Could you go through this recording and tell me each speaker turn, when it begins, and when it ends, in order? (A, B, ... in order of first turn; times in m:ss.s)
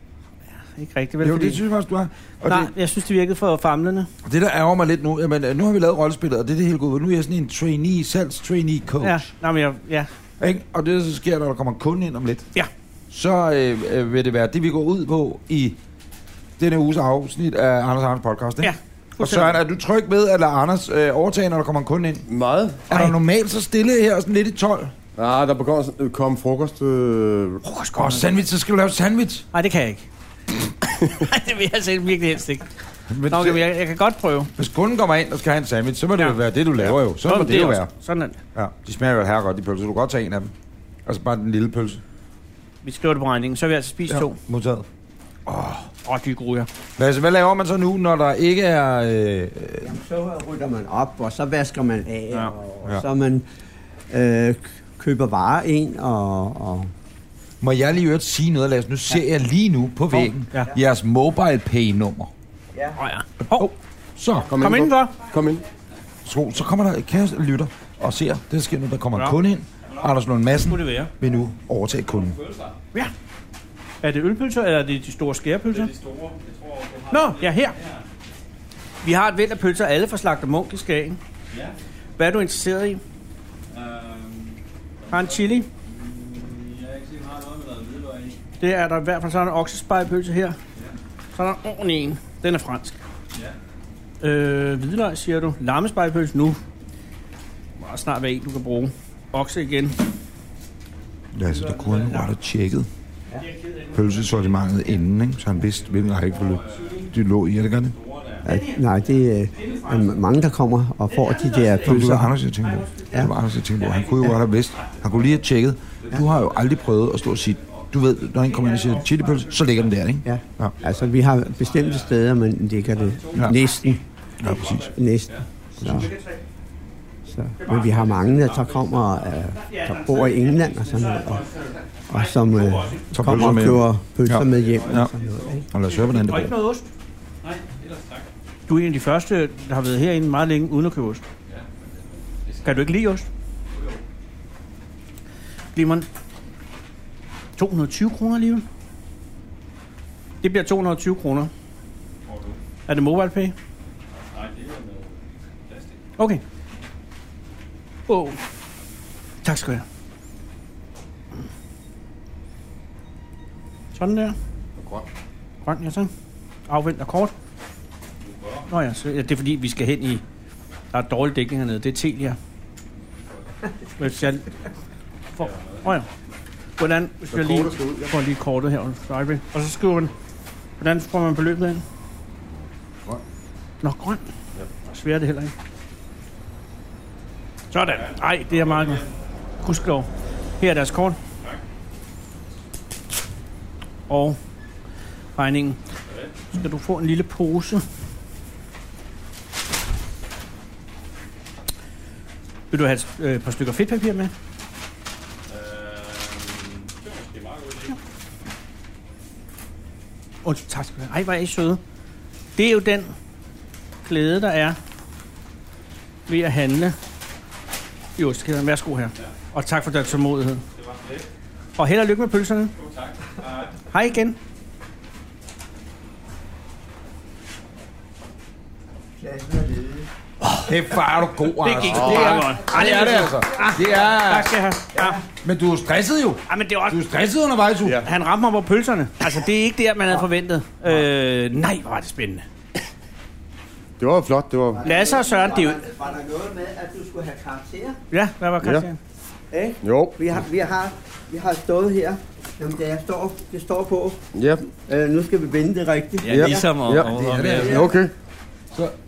0:00.6-0:01.6 A
0:01.2-0:02.7 B
0:02.4-0:04.1 A
0:04.2-0:09.2 B
0:09.0-0:10.1 A
0:10.4-0:12.5 B
0:13.1-0:15.8 B
0:16.6-0:22.2 B
0:18.6-0:19.5 A
0:22.3-0:22.8 C
0:22.9-0:24.9 B
0:25.2-0:27.6 C
0:27.6-0:28.3 A
0:28.0-0:29.4 B
0:29.5-0:30.0 A
0:30.8-0:32.7 A
0:33.1-0:33.6 B
0:33.3-0:34.5 A
0:34.6-0:37.9 B
0:37.2-0:38.4 A
0:38.5-0:40.5 B
0:41.0-0:42.0 B
0:42.8-0:44.4 A
0:44.1-0:44.9 B
0:45.5-0:45.8 B
0:46.0-0:46.7 A
0:47.0-0:49.9 B
0:49.8-0:53.4 D
0:54.1-0:56.9 D
0:57.6-1:02.3 B
1:00.1-1:00.7 A
1:03.0-1:03.7 A
1:03.4-1:04.5 B
1:04.5-1:05.6 C
1:04.6-1:05.1 A
1:06.2-1:12.4 B
1:09.8-1:10.1 E
1:10.7-1:11.1 A
1:12.0-1:12.8 E
1:14.0-1:15.9 A
1:15.6-1:18.0 E
1:17.1-1:17.8 A
1:19.0-1:21.2 A
1:22.2-1:23.0 A
1:23.7-1:28.4 E
1:25.1-1:25.7 A
1:28.6-1:30.6 A
1:31.3-1:33.0 A
1:34.2-1:36.6 A
1:37.8-1:40.0 A
1:41.3-1:42.9 B
1:41.5-1:42.3 A
1:43.4-1:44.7 A
1:43.9-1:47.9 B
1:45.7-1:47.1 E
1:46.6-1:46.9 A
1:47.9-1:48.5 E
1:48.4-1:48.9 A
1:48.4-1:52.3 D
1:49.5-1:50.2 A
1:49.6-1:50.1 E
1:51.1-1:53.3 A
1:51.8-2:00.8 B
1:53.8-1:55.4 E
1:56.0-2:00.0 E
1:58.6-1:59.2 A
2:00.2-2:04.0 D
2:00.8-2:02.3 E
2:02.8-2:05.4 E
2:03.5-2:03.9 A
2:04.4-2:04.9 B
2:04.8-2:06.1 D
2:05.8-2:06.1 B
2:05.8-2:06.4 A
2:07.2-2:11.4 D
2:07.6-2:08.6 A
2:08.2-2:09.4 E
2:09.5-2:13.5 A
2:10.9-2:13.1 E
2:12.1-2:15.6 D
2:13.1-2:15.1 B
2:14.4-2:16.2 E
2:15.7-2:16.5 B
2:15.9-2:16.9 A
2:17.4-2:18.3 E
2:18.7-2:21.2 A
2:21.5-2:22.9 E
2:22.6-2:23.3 A
2:23.7-2:24.0 E
2:25.7-2:26.1 A
2:27.6-2:28.6 A
2:30.4-2:31.5 A
2:32.2-2:32.6 E
2:32.9-2:33.5 A
2:34.3-2:36.0 E
2:36.2-2:36.4 A
2:38.1-2:38.4 A
2:39.4-2:39.8 A
2:43.9-2:44.4 A
2:44.8-2:45.0 C
2:45.6-2:46.1 A
2:46.7-2:47.3 A
2:48.2-2:48.7 E
2:48.7-2:50.2 A
2:50.9-2:52.4 A
2:54.0-2:54.5 A
2:55.4-2:56.1 A
2:55.4-2:56.0 E
2:56.8-3:00.1 A
2:57.3-2:58.1 C
3:00.8-3:01.8 A
3:03.8-3:04.2 A
3:04.8-3:05.5 A
3:07.7-3:09.0 A
3:08.0-3:09.2 E
3:09.6-3:10.1 A
3:10.6-3:11.2 A
3:14.1-3:14.4 A
3:15.4-3:15.8 A
3:16.0-3:16.4 E
3:16.5-3:17.8 A
3:22.7-3:24.3 A
3:25.5-3:28.0 E
3:30.4-3:31.8 A
3:32.6-3:33.1 A
3:34.0-3:34.8 A
3:36.3-3:37.0 A
3:38.2-3:40.6 A
3:39.9-3:40.2 E
3:40.7-3:41.3 E
3:41.8-3:42.7 A
3:42.8-3:43.8 E
3:43.8-3:44.4 A
3:49.2-3:50.1 D
3:50.4-3:50.7 A
3:50.6-3:54.5 B
3:51.5-3:55.2 A
3:51.9-3:52.4 C
3:54.9-3:55.2 D
3:55.4-3:58.0 B
3:56.5-3:57.0 A
3:58.0-4:02.4 A
4:04.0-4:04.8 C
4:04.8-4:08.0 D
4:04.8-4:05.8 A
4:08.1-4:09.0 A
4:09.5-4:14.2 D
4:09.8-4:10.2 C
4:14.3-4:14.6 C
4:14.8-4:16.4 D
4:16.2-4:17.4 A
4:16.2-4:18.1 C
4:16.4-4:17.8 E
4:17.1-4:17.8 B
4:17.5-4:17.9 D